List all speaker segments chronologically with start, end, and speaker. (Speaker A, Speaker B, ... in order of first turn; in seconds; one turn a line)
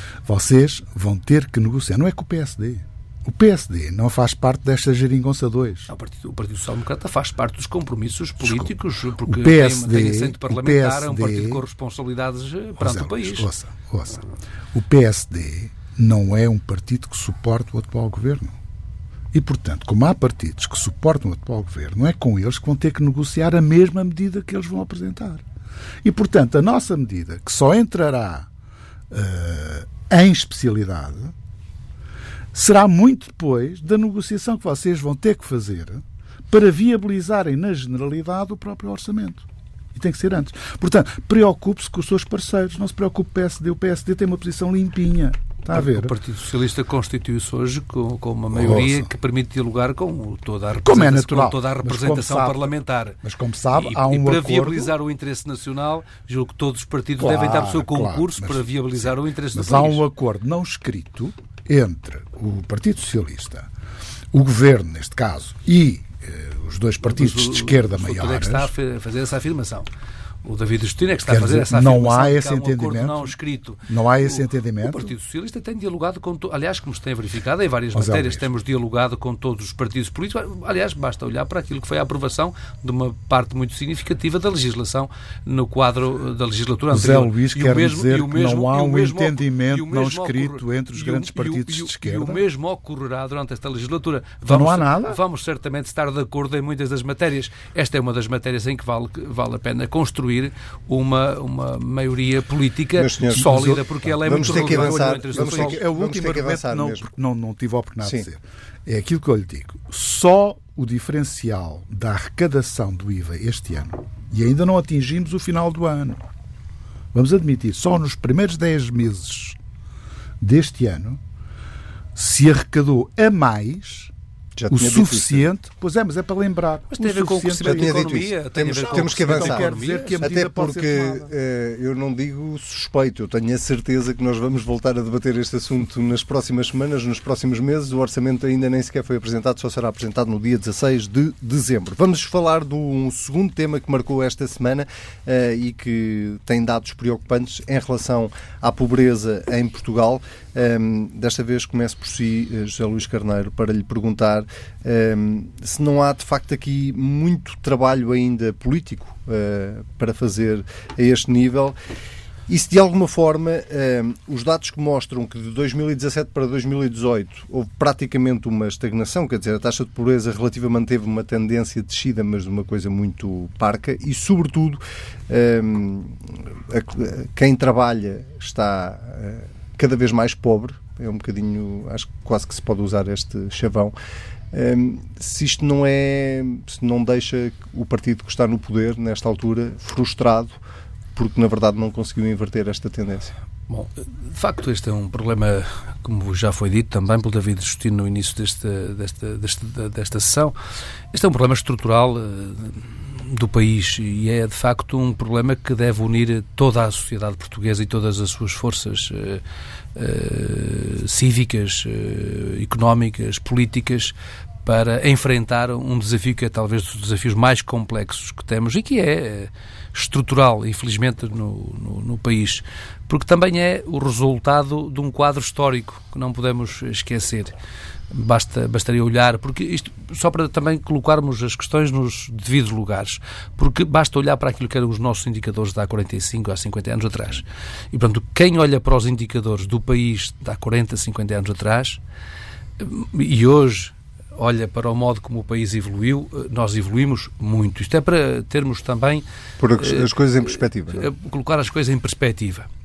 Speaker A: 0.2-5.9
Speaker B: 5.9-13.5
Speaker A: 8.4-11.6
Speaker A: 12.8-18.6
Speaker A: 19.3-25.4
Speaker A: 26.0-28.5
Speaker A: 29.1-31.3
Speaker A: 32.5-46.1
Speaker B: 45.7-53.2
Speaker A: 48.5-49.1
Speaker A: 50.8-54.9
Speaker B: 53.7-60.0
Speaker A: 57.2-63.7
Speaker A: 64.3-68.7
Speaker B: 67.0-69.9
Speaker B: 70.4-105.8
Speaker A: 71.3-73.3
Speaker A: 73.8-75.1
Speaker A: 77.9-78.5
Speaker A: 86.9-92.4
Speaker A: 94.5-95.2
Speaker C: 103.0-103.6
Speaker A: 103.4-116.2
Speaker C: 104.2-107.0
Speaker A: 117.1-119.6
Speaker A: 120.4-121.2
Speaker A: 122.1-124.1
Speaker C: 124.6-125.5
Speaker A: 124.7-128.1
Speaker B: 126.9-130.1
Speaker C: 127.6-161.7
Speaker A: 128.8-131.3
Speaker C: 162.5-183.9
Speaker C: 184.5-190.6
Speaker C: 191.2-193.3
Speaker B: 193.7-200.5
Speaker B: 201.1-209.4
Speaker B: 209.9-227.5
Speaker B: 228.1-242.0
Speaker B: 242.8-249.2
Speaker C: 249.6-251.1
Speaker B: 249.8-250.1
Speaker B: 250.9-252.7